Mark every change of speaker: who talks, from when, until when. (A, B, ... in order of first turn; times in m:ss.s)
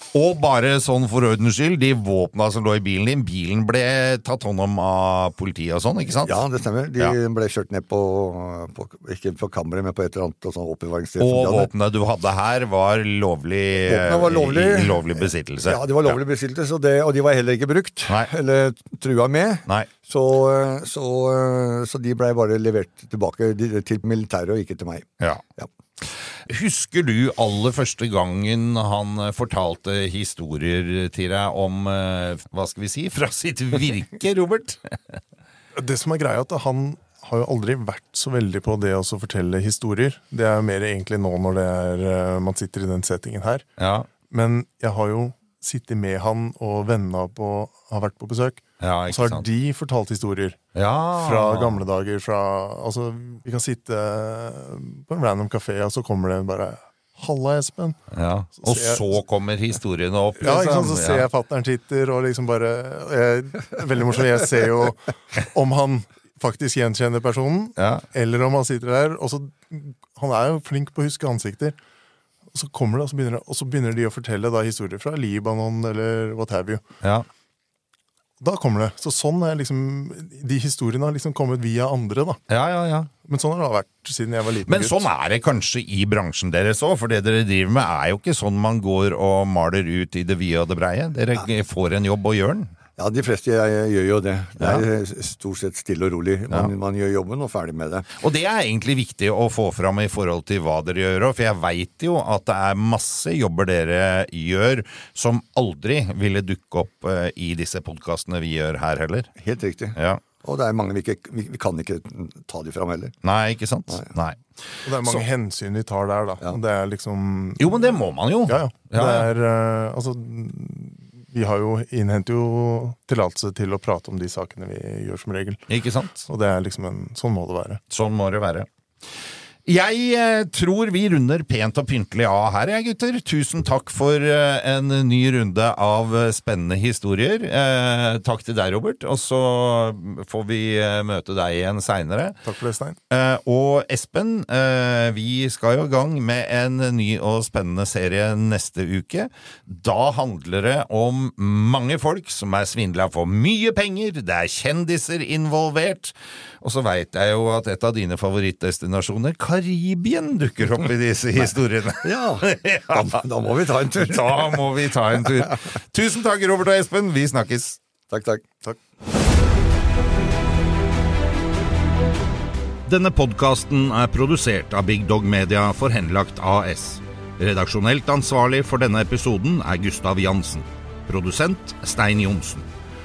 0:00.1-0:06.4 A
0:06.2-0:11.7 B
0:11.2-0:16.2 A
0:13.9-0:25.7 B
0:26.1-0:34.9 A
0:35.8-0:43.6 C
0:43.8-0:44.1 A
0:44.3-0:50.6 C
0:48.8-0:49.4 A
0:50.8-0:51.8 A
0:51.1-0:58.0 C
0:58.1-1:01.3 A
0:58.6-0:59.1 C
1:00.4-1:11.8 C
1:07.8-1:08.0 A
1:12.5-1:16.8 C
1:17.0-1:17.3 A
1:18.4-1:22.4 C
1:22.5-1:23.1 A
1:23.2-1:25.0 C
1:24.6-1:32.7 A
1:33.0-1:38.1 B
1:34.6-1:34.8 A
1:38.2-1:49.3 A
1:49.4-1:53.1 B
1:50.0-1:50.2 A
1:53.2-1:54.4 A
1:54.8-2:05.6 C
1:57.6-1:59.3 A
2:05.7-2:06.1 A
2:06.2-2:07.8 C
2:07.9-2:08.7 A
2:09.6-2:22.4 A
2:22.4-2:23.0 C
2:23.1-2:43.2 A
2:42.0-2:44.6 B
2:43.9-2:47.8 A
2:48.1-2:48.5 B
2:52.8-3:02.7 A